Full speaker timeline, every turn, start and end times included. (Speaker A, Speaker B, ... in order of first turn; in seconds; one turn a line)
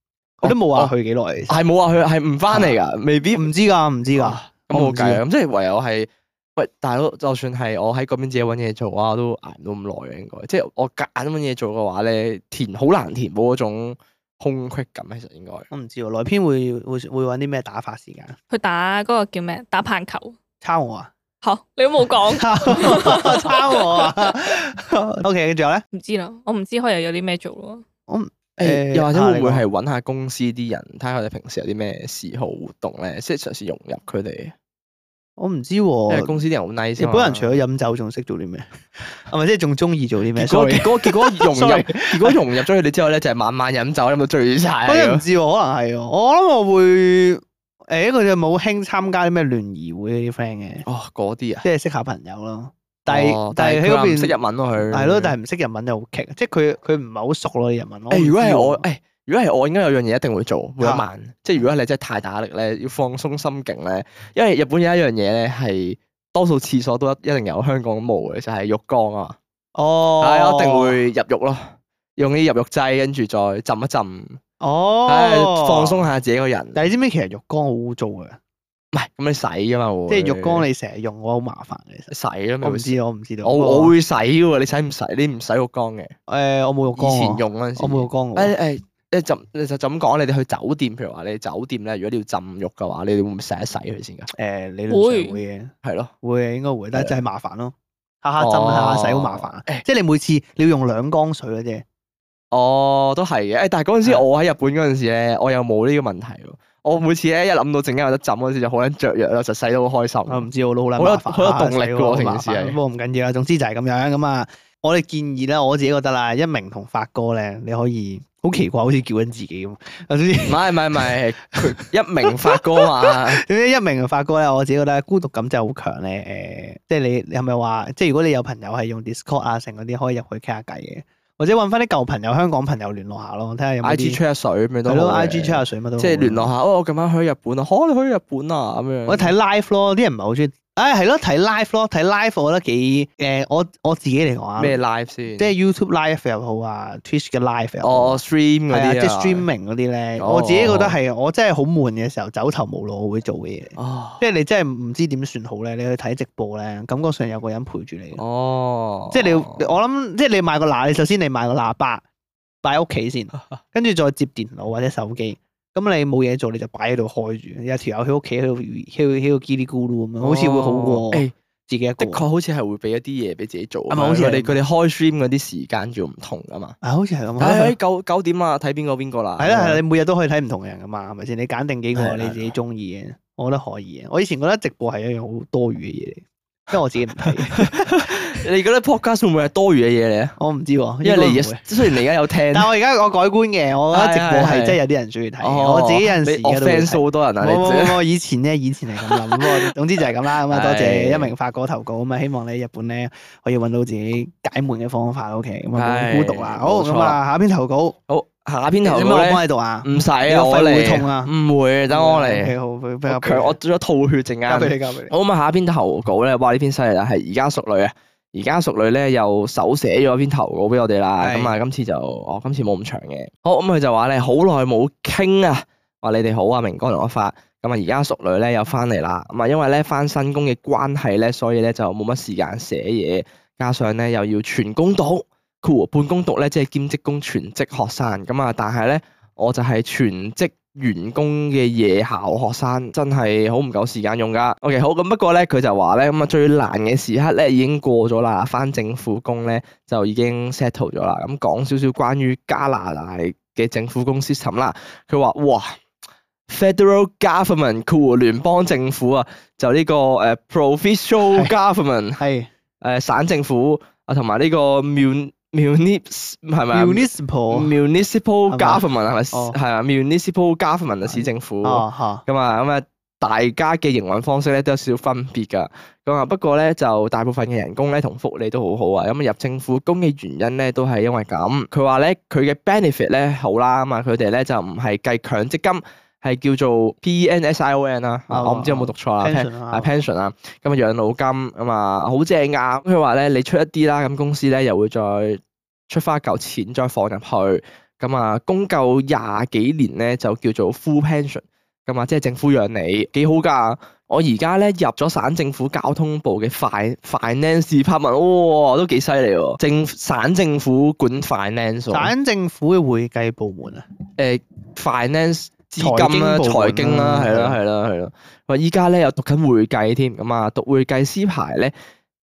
Speaker A: 0.4-1.6
Speaker B: 0.4-0.9
Speaker B: 1.5-3.5
Speaker A: 2.5-2.8
Speaker A: 3.4-5.2
Speaker B: 4.2-15.7
Speaker A: 15.7-18.4
Speaker C: 18.5-20.4
Speaker A: 20.6-21.1
Speaker C: 21.4-24.3
Speaker A: 22.4-25.8
Speaker C: 25.9-27.8
Speaker A: 28.1-29.6
Speaker B: 28.6-34.5
Speaker A: 35.4-36.4
Speaker B: 36.1-37.6
Speaker A: 37.0-42.4
Speaker B: 40.4-45.2
Speaker A: 44.9-50.9
Speaker B: 50.9-51.6
Speaker A: 51.6-54.4
Speaker B: 53.1-55.4
Speaker A: 54.9-58.9
Speaker B: 58.1-69.4
Speaker A: 69.8-71.0
Speaker B: 70.2-74.4
Speaker A: 74.6-76.0
Speaker B: 75.1-76.8
Speaker A: 76.8-78.4
Speaker B: 78.9-80.7
Speaker A: 80.1-82.1
Speaker B: 82.1-86.1
Speaker A: 82.6-83.9
Speaker A: 86.3-88.5
Speaker B: 87.0-94.3
Speaker A: 94.3-101.8
Speaker C: 94.9-95.4
Speaker B: 95.8-96.1
Speaker B: 98.4-99.8
Speaker B: 102.5-112.8
Speaker A: 110.3-134.2
Speaker B: 120.5-123.4
Speaker B: 133.8-139.3
Speaker A: 134.9-136.5
Speaker A: 139.1-144.8
Speaker B: 144.6-145.5
Speaker A: 145.4-158.2
Speaker B: 147.8-149.5
Speaker B: 150.2-151.0
Speaker B: 153.8-154.2
Speaker B: 158.2-159.7
Speaker A: 159.1-162.0
Speaker A: 162.6-172.2
Speaker B: 170.2-171.3
Speaker B: 172.0-176.8
Speaker A: 173.9-174.6
Speaker A: 176.8-177.8
Speaker B: 177.4-179.8
Speaker A: 179.4-188.4
Speaker B: 181.9-182.5
Speaker B: 187.2-190.4
Speaker A: 190.4-191.7
Speaker B: 191.0-192.7
Speaker A: 192.5-208.0
Speaker B: 193.9-194.8
Speaker B: 195.4-198.0
Speaker B: 199.0-199.7
Speaker B: 200.3-201.3
Speaker B: 205.8-207.2
Speaker B: 208.1-212.6
Speaker A: 208.8-211.3
Speaker A: 211.9-213.6
Speaker B: 213.1-255.8
Speaker A: 214.5-215.1
Speaker A: 221.2-221.6
Speaker B: 256.5-262.2
Speaker A: 262.2-262.5
Speaker B: 262.8-312.1
Speaker A: 266.7-267.8
Speaker A: 268.5-269.6
Speaker A: 271.1-272.2
Speaker A: 288.3-289.9
Speaker A: 311.9-313.9
Speaker B: 314.2-321.7
Speaker A: 315.8-317.6